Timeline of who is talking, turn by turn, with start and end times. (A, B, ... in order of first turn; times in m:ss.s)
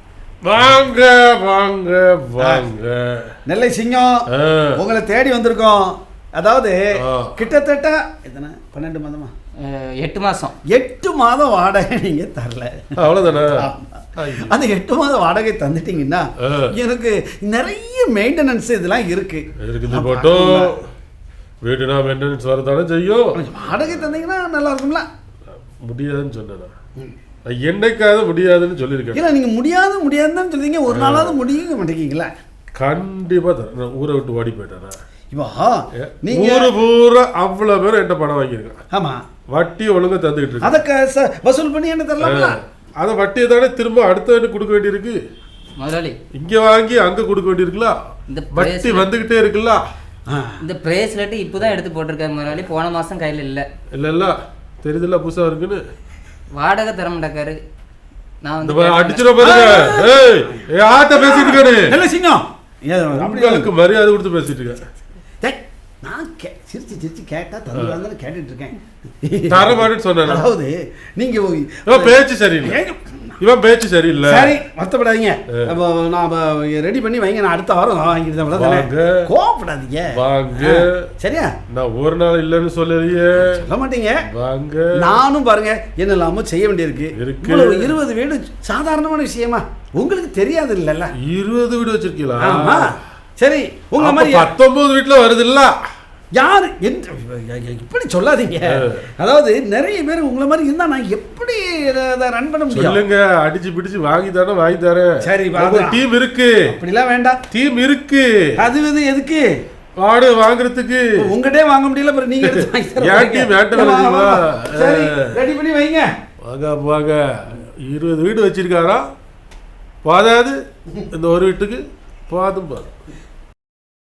0:00.4-0:03.4 A
0:02.4-0:02.6 B
0:03.4-0:09.3 B
0:04.3-0:04.8 A
0:07.0-0:07.4 A
0:09.6-0:10.6 C
0:10.7-0:20.7 B
0:13.0-0:13.6 A
0:14.2-0:14.6 A
0:16.4-0:16.7 A
0:19.6-0:20.8 A
0:21.6-0:24.0 A
0:23.4-0:25.1 B
0:25.8-0:26.7 A
0:27.5-0:29.2 A
0:29.1-0:32.3 B
0:30.9-0:31.4 A
0:32.8-0:35.0 A
0:35.3-0:36.7 B
0:36.0-0:38.8 A
0:38.9-0:39.2 B
0:39.5-0:40.8 A
0:40.6-0:42.6 B
0:42.2-0:45.2 A
0:45.8-0:46.2 C
0:46.3-0:47.9 A
0:48.3-0:49.1 C
0:48.5-0:49.8 A
0:50.3-0:50.6 B
0:50.6-0:53.7 C
0:53.9-0:55.8 A
0:56.6-0:57.6 C
0:58.4-0:59.6 C
0:58.6-1:02.0 A
0:59.4-1:03.7 B
1:03.1-1:04.8 A
1:05.4-1:13.4 B
1:09.5-1:10.5 A
1:11.9-1:12.8 A
1:13.4-1:14.6 A
1:14.2-1:21.5 B
1:18.5-1:19.3 A
1:20.1-1:21.1 A
1:21.7-1:23.6 A
1:23.5-1:24.2 B
1:24.3-1:25.2 A
1:25.0-1:31.1 B
1:27.2-1:28.0 A
1:31.2-1:33.0 A
1:32.4-1:34.5 B
1:34.0-1:35.7 A
1:36.4-1:43.0 B
1:38.7-1:38.9 A
1:42.7-1:46.8 A
1:45.2-1:46.0 B
1:46.7-1:47.4 B
1:47.5-1:48.6 A
1:48.6-1:49.6 B
1:50.0-1:51.3 A
1:51.2-1:56.1 B
1:52.4-1:55.4 A
1:56.4-1:59.0 A
2:00.0-2:00.6 A
2:01.1-2:02.9 A